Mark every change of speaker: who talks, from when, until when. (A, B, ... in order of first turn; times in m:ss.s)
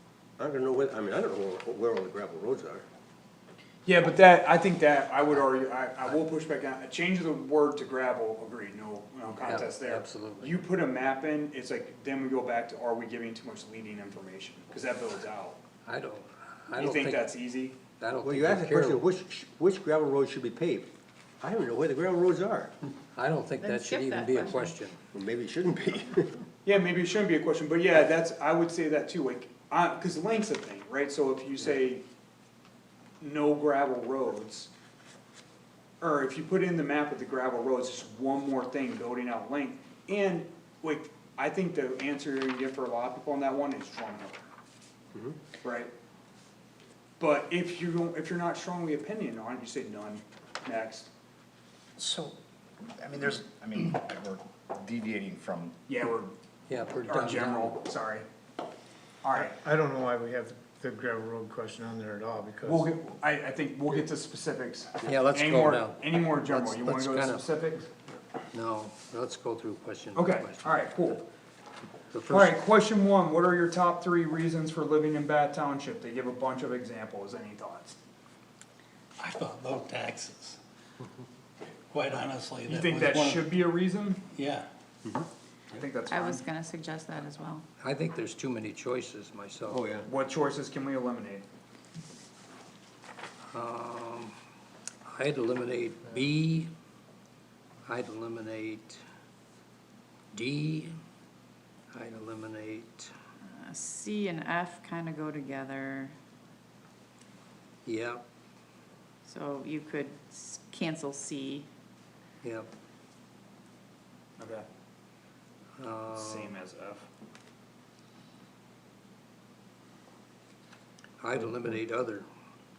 0:00.4-0:02.8 A
0:03.8-0:15.6 B
0:09.4-0:10.5 C
0:15.8-0:17.4 C
0:16.7-0:17.8 B
0:18.0-0:19.0 C
0:18.2-0:22.7 A
0:23.1-0:25.0 C
0:23.6-0:24.7 D
0:25.1-0:26.4 A
0:26.6-0:32.0 B
0:33.2-0:34.7 B
0:36.0-0:44.5 B
0:45.6-0:45.9 B
0:47.2-0:51.1 B
0:52.0-0:55.8 E
0:55.9-0:56.3 B
0:56.7-0:57.8 C
0:57.0-0:58.2 B
0:59.2-0:59.6 B
0:59.3-1:02.9 F
1:02.6-1:07.9 B
1:05.0-1:07.5 C
1:08.5-1:10.9 C
1:10.1-1:11.3 B
1:12.1-1:12.6 C
1:12.3-1:18.0 B
1:19.2-1:20.5 G
1:22.0-1:23.4 G
1:22.6-1:24.2 B
1:24.4-1:25.8 A
1:25.7-1:26.4 B
1:26.0-1:27.6 D
1:27.8-1:29.8 C
1:29.7-1:30.1 A
1:30.0-1:31.4 B
1:33.5-1:34.3 C
1:35.0-1:36.7 C
1:37.9-1:39.0 C
1:40.3-1:40.9 C
1:41.9-1:43.1 C
1:43.5-1:46.1 D
1:47.8-1:48.2 C
1:49.2-1:51.7 D
1:52.4-1:52.7 C
1:54.4-1:54.6 B
1:55.8-1:56.5 C
1:56.1-1:57.0 B
2:01.2-2:02.3 C